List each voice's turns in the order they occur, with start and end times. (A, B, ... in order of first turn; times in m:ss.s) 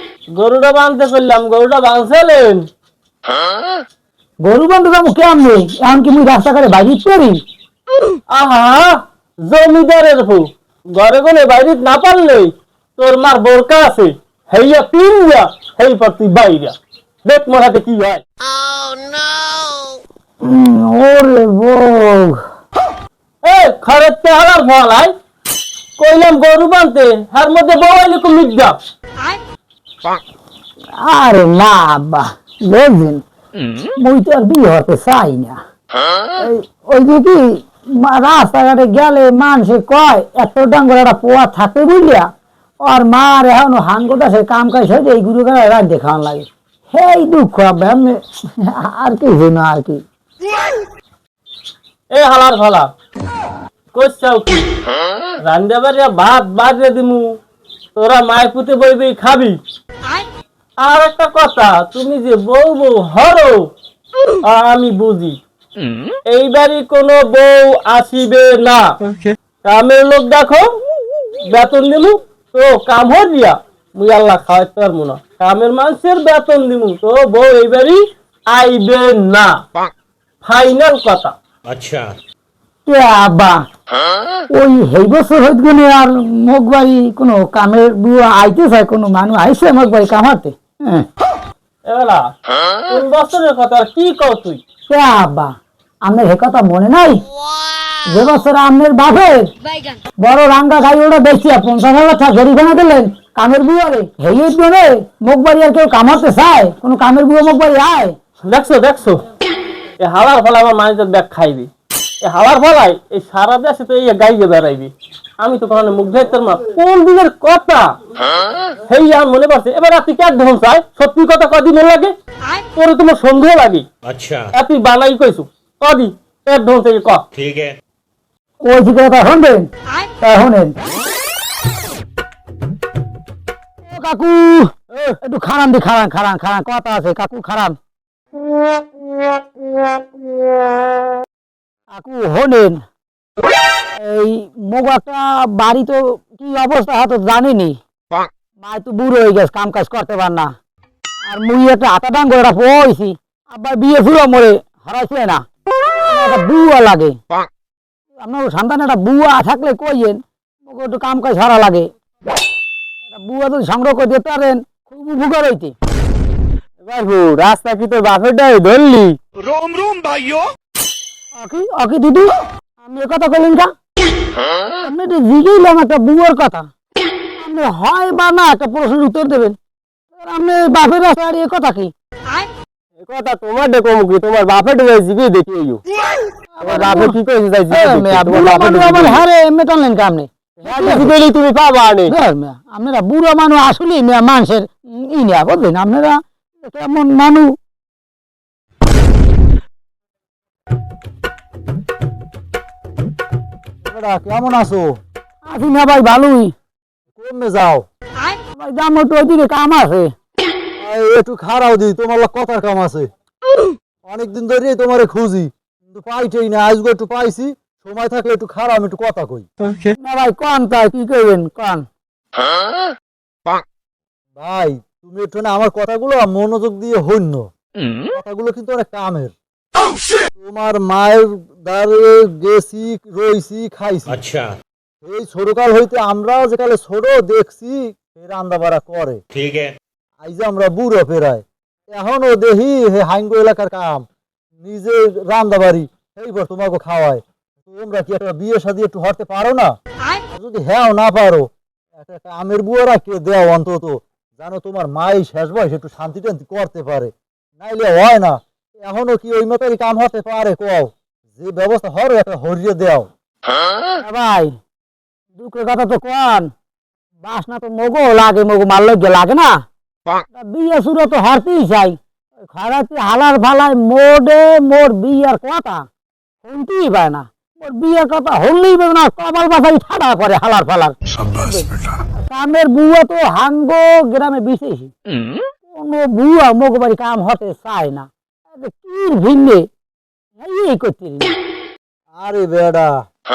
0:00.3-0:02.6 A
0:04.4-0:07.4 B
0:08.3-0:18.2 A
0:20.4-0:22.4 B
0:23.4-0:25.1 A
0:26.0-0:28.8 A
0:31.0-0:33.2 B
0:33.8-0:35.6 B
0:36.4-0:42.3 B
0:42.8-0:50.0 B
0:52.1-0:52.9 A
0:53.9-0:54.7 A
0:55.4-0:57.3 A
0:58.0-0:59.6 A
1:00.8-1:03.7 A
1:04.4-1:05.4 A
1:06.3-1:08.9 A
1:09.6-1:10.6 A
1:11.4-1:19.6 A
1:20.4-1:21.3 A
1:21.6-1:22.1 C
1:22.8-1:23.6 B
1:24.5-1:31.1 B
1:31.8-1:32.3 A
1:32.9-1:34.6 A
1:34.9-1:35.5 B
1:36.0-1:37.3 B
1:38.0-1:39.5 B
1:40.2-1:48.2 B
1:48.4-1:49.2 A
1:50.0-1:51.7 A
1:52.2-1:57.9 A
1:58.9-2:02.1 A
2:02.8-2:03.9 A
2:04.0-2:04.5 C
2:04.5-2:07.2 A
2:07.3-2:07.7 C
2:08.6-2:09.7 B
2:10.2-2:10.8 B
2:13.9-2:17.8 B
2:21.9-2:22.8 B
2:24.0-2:27.8 B
2:28.6-2:30.5 B
2:31.3-2:35.4 B
2:36.0-2:37.2 B
2:38.2-2:41.9 B
2:43.1-2:45.7 B
2:46.8-2:49.2 A
2:51.4-2:53.7 B
2:54.8-2:56.7 B
2:57.4-2:59.6 B
3:00.1-3:01.9 B
3:03.0-3:05.8 A
3:06.6-3:07.2 B
3:06.7-3:09.2 A
3:07.7-3:11.2 B
3:10.6-3:12.1 A
3:12.1-3:17.5 B
3:23.8-3:25.0 D
3:25.5-3:26.5 B
3:27.2-3:27.8 D
3:28.6-3:30.1 B
3:30.8-3:33.1 D
3:34.0-3:39.4 D
3:40.0-3:41.8 B
3:44.4-3:47.5 D
3:48.1-3:49.3 D
3:50.4-3:54.2 D
3:54.1-3:54.5 C
3:55.0-3:59.2 D
3:59.3-3:59.7 C
4:00.2-4:04.0 D
4:04.6-4:09.7 D
4:10.3-4:23.1 D
4:24.0-4:24.5 B
4:25.4-4:26.5 B
4:27.2-4:29.6 B
4:30.3-4:32.0 B
4:32.5-4:35.8 B
4:36.4-4:44.9 B
4:45.7-4:49.6 B
4:50.4-4:51.3 B
4:52.1-4:53.0 D